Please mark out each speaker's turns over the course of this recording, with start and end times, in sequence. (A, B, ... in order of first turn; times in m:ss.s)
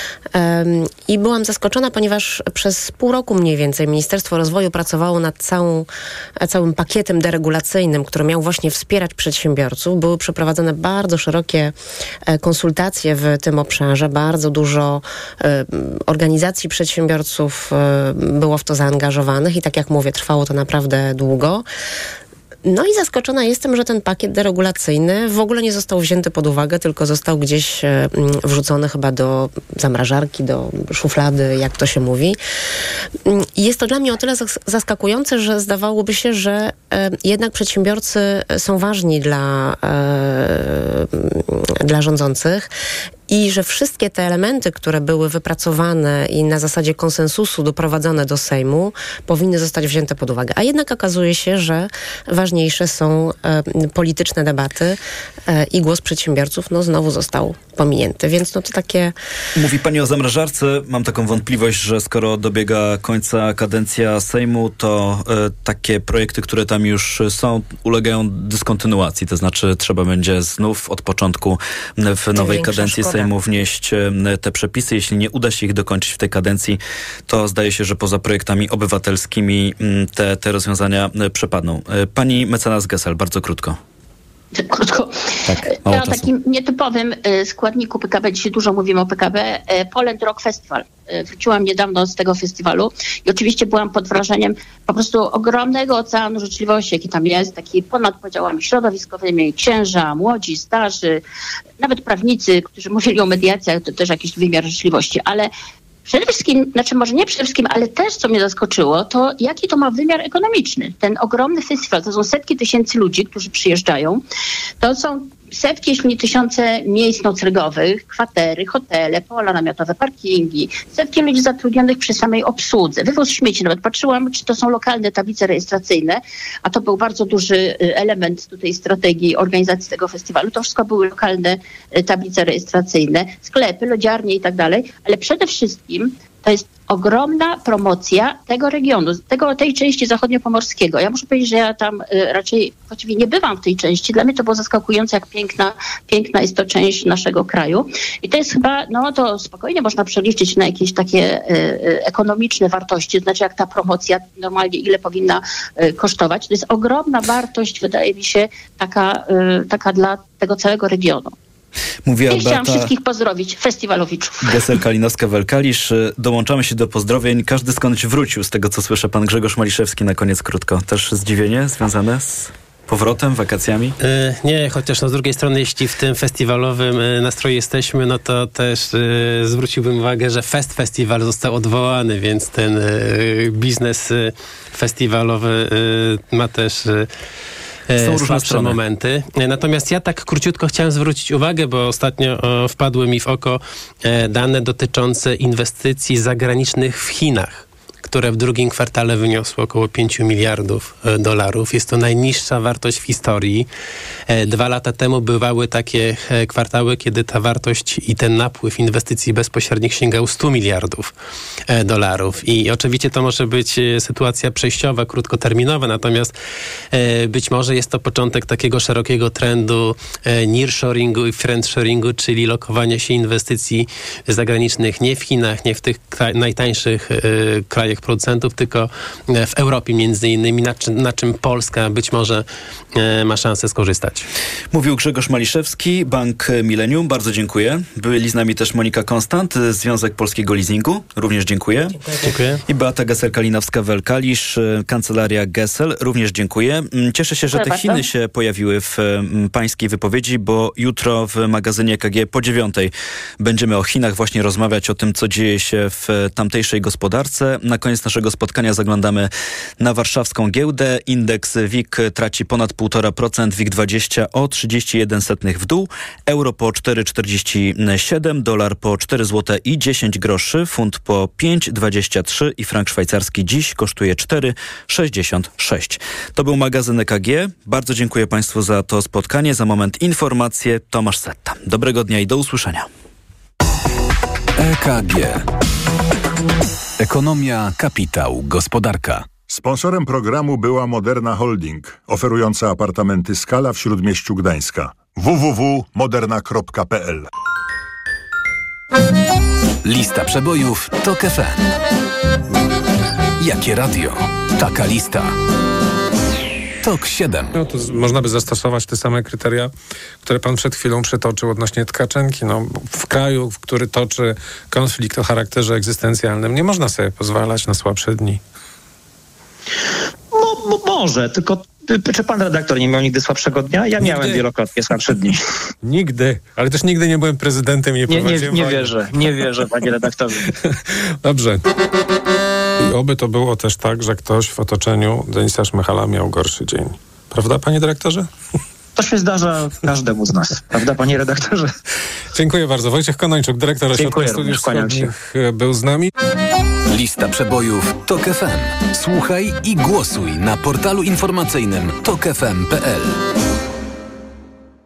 0:00.3-0:05.9 A
0:06.4-0:11.7 A
0:12.3-0:21.6 A
0:22.6-0:32.4 A
0:33.2-0:42.7 A
0:43.3-0:59.1 A
0:59.6-1:23.8 B
1:12.3-1:13.3 A
1:24.6-1:41.2 C
1:25.5-1:26.3 B
1:41.8-1:45.5 C
1:46.0-1:54.2 C
1:54.8-2:41.3 C
2:42.0-2:42.9 B
2:42.3-2:44.6 C
2:44.4-2:53.9 B
2:54.0-3:07.1 D
3:07.9-3:23.7 D
3:08.0-3:08.8 B
3:24.3-3:31.1 D
3:31.7-3:36.3 D
3:36.9-3:54.3 D
3:54.7-4:02.0 B
4:02.0-4:02.3 A
4:02.2-4:02.6 D
4:02.6-4:19.3 B
4:07.5-4:08.0 C
4:19.8-4:42.9 B
4:44.6-4:45.4 E
4:47.0-4:49.3 E
4:49.5-4:57.3 F
4:59.8-5:01.6 E
5:03.4-5:05.3 E
5:06.8-5:07.5 E
5:07.5-5:18.4 G
5:20.3-5:25.4 H
5:24.0-5:24.4 G
5:25.8-5:29.4 G
5:28.1-5:30.5 H
5:31.2-5:31.6 G
5:32.8-5:38.3 G
5:39.0-5:41.7 H
5:42.3-5:46.1 G
5:43.9-5:45.1 H
5:46.9-5:53.2 E